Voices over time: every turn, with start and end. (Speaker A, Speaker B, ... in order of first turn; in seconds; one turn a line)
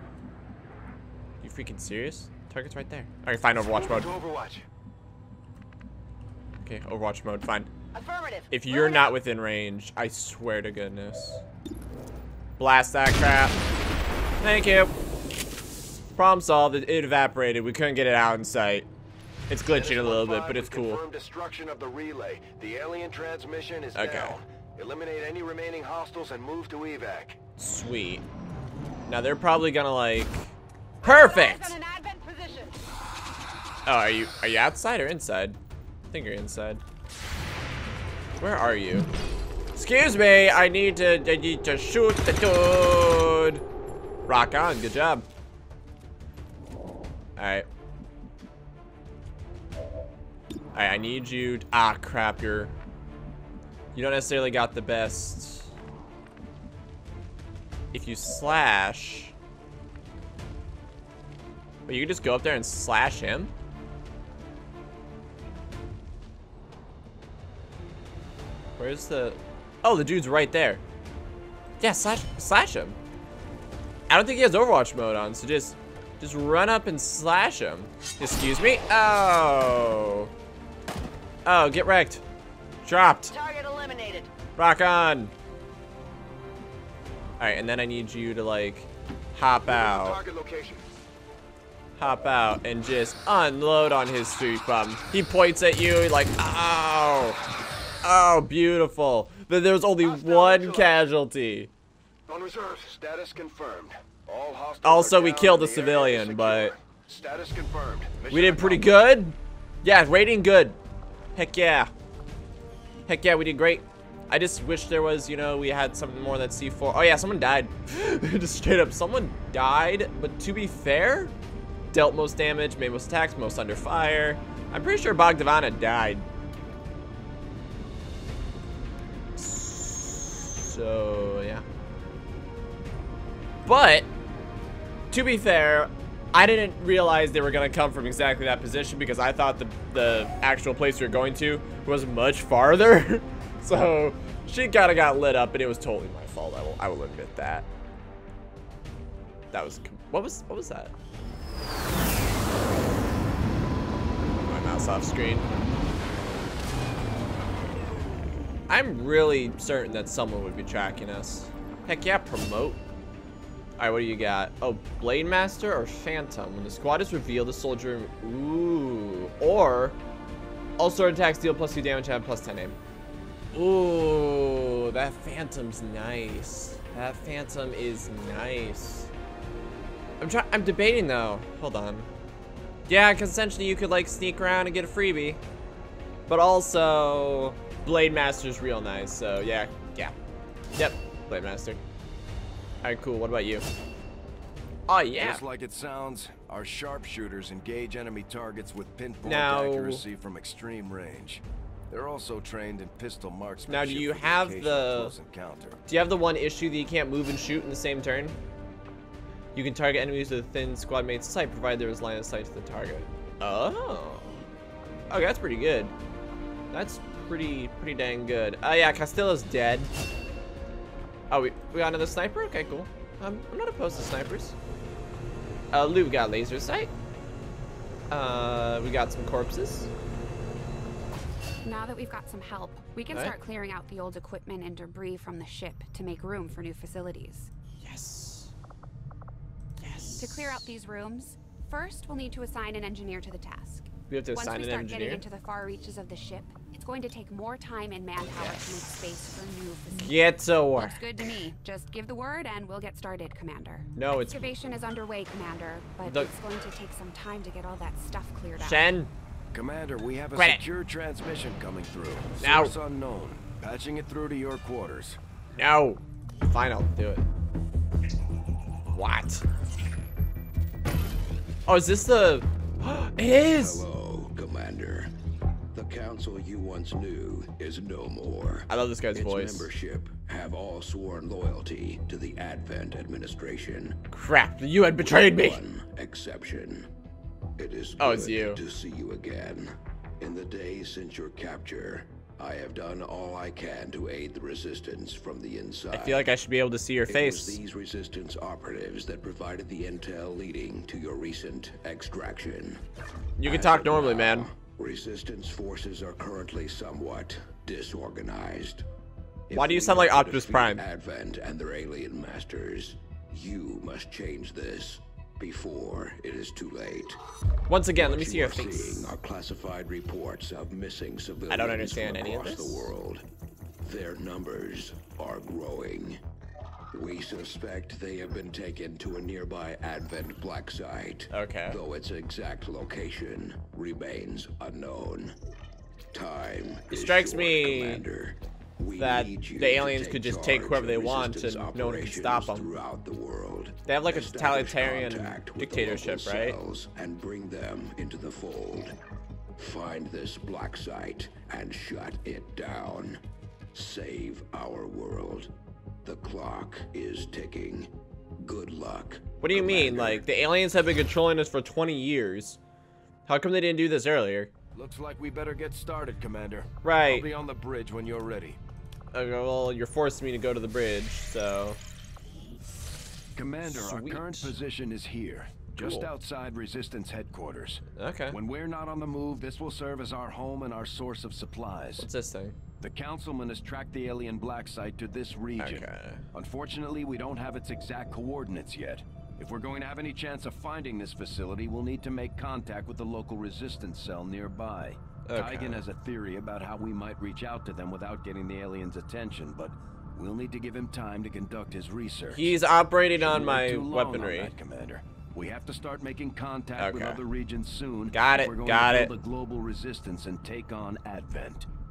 Speaker A: 1.4-4.1
Speaker B: 3.7-4.6
Speaker A: 6.6-7.7
Speaker C: 7.9-9.1
Speaker A: 8.5-11.4
Speaker A: 12.6-13.6
Speaker A: 14.4-14.9
Speaker A: 16.2-18.9
Speaker A: 19.5-21.0
Speaker D: 19.7-27.4
Speaker A: 23.9-24.4
Speaker A: 27.6-28.2
Speaker A: 29.1-31.8
Speaker C: 31.0-32.8
Speaker A: 33.9-35.6
Speaker A: 36.1-36.8
Speaker A: 38.4-39.1
Speaker A: 39.8-43.6
Speaker A: 44.3-45.3
Speaker A: 47.4-47.7
Speaker A: 50.7-52.8
Speaker A: 54.0-55.7
Speaker A: 57.9-59.3
Speaker A: 61.9-63.5
Speaker A: 68.8-70.8
Speaker A: 71.8-73.0
Speaker A: 74.1-80.3
Speaker A: 81.5-82.2
Speaker A: 82.8-83.3
Speaker C: 83.3-84.3
Speaker A: 84.6-85.3
Speaker A: 87.4-90.2
Speaker B: 89.7-90.8
Speaker A: 92.0-97.4
Speaker A: 98.0-101.7
Speaker B: 100.1-100.8
Speaker B: 102.3-102.9
Speaker D: 102.8-109.0
Speaker A: 104.8-106.8
Speaker A: 108.3-110.8
Speaker A: 111.3-111.9
Speaker A: 113.1-121.3
Speaker A: 121.9-126.3
Speaker A: 129.4-131.7
Speaker A: 133.7-134.1
Speaker A: 135.1-147.7
Speaker A: 149.5-150.9
Speaker A: 154.5-155.5
Speaker A: 158.7-162.8
Speaker A: 163.8-170.0
Speaker A: 170.8-172.8
Speaker A: 173.5-179.1
Speaker A: 180.2-182.1
Speaker A: 182.9-185.4
Speaker A: 186.3-190.1
Speaker A: 190.8-191.8
Speaker A: 192.8-193.7
Speaker A: 194.9-195.4
Speaker D: 195.2-205.8
Speaker A: 199.2-200.0
Speaker A: 203.7-205.2
Speaker A: 205.9-208.4
Speaker A: 209.6-214.5
Speaker A: 215.1-215.9
Speaker A: 216.7-219.9
Speaker A: 221.3-224.6
Speaker A: 225.7-226.9
Speaker A: 228.1-229.9
Speaker E: 231.6-237.5
Speaker A: 237.8-238.5
Speaker A: 239.8-240.7
Speaker E: 240.2-258.9
Speaker A: 244.1-245.2
Speaker A: 248.3-248.7
Speaker A: 249.9-251.0
Speaker A: 254.0-254.4
Speaker A: 256.1-256.3
Speaker A: 258.6-259.1
Speaker D: 259.5-265.2
Speaker A: 260.4-260.6
Speaker A: 262.4-262.7
Speaker A: 265.6-267.3
Speaker A: 268.9-269.4
Speaker A: 271.7-273.9
Speaker F: 273.5-275.1
Speaker F: 275.7-284.0
Speaker A: 278.7-279.7
Speaker A: 284.1-285.6
Speaker F: 285.0-286.9
Speaker F: 287.6-296.4
Speaker A: 288.0-288.6
Speaker A: 295.9-297.6
Speaker F: 297.1-302.8
Speaker A: 303.4-304.5
Speaker F: 303.4-308.9
Speaker F: 309.5-317.2
Speaker A: 309.5-310.8
Speaker A: 317.7-319.1
Speaker F: 318.0-323.2
Speaker A: 321.5-322.9
Speaker F: 323.8-326.2
Speaker F: 326.9-335.4
Speaker A: 331.3-331.8
Speaker F: 336.1-348.9
Speaker A: 336.9-338.0
Speaker A: 339.0-342.7
Speaker A: 343.9-346.6
Speaker F: 349.6-353.2
Speaker F: 353.7-355.5
Speaker F: 356.0-357.9
Speaker F: 358.4-360.3
Speaker A: 359.4-362.6
Speaker A: 363.3-364.5
Speaker D: 364.8-368.6
Speaker A: 366.8-367.3
Speaker A: 369.1-371.8
Speaker D: 373.4-382.1
Speaker A: 373.6-374.6
Speaker A: 375.8-376.1
Speaker A: 378.0-378.4
Speaker A: 382.0-382.6
Speaker D: 382.8-411.7
Speaker A: 385.6-386.2
Speaker A: 395.2-395.8
Speaker A: 402.3-404.5
Speaker A: 406.8-407.2
Speaker A: 408.1-409.1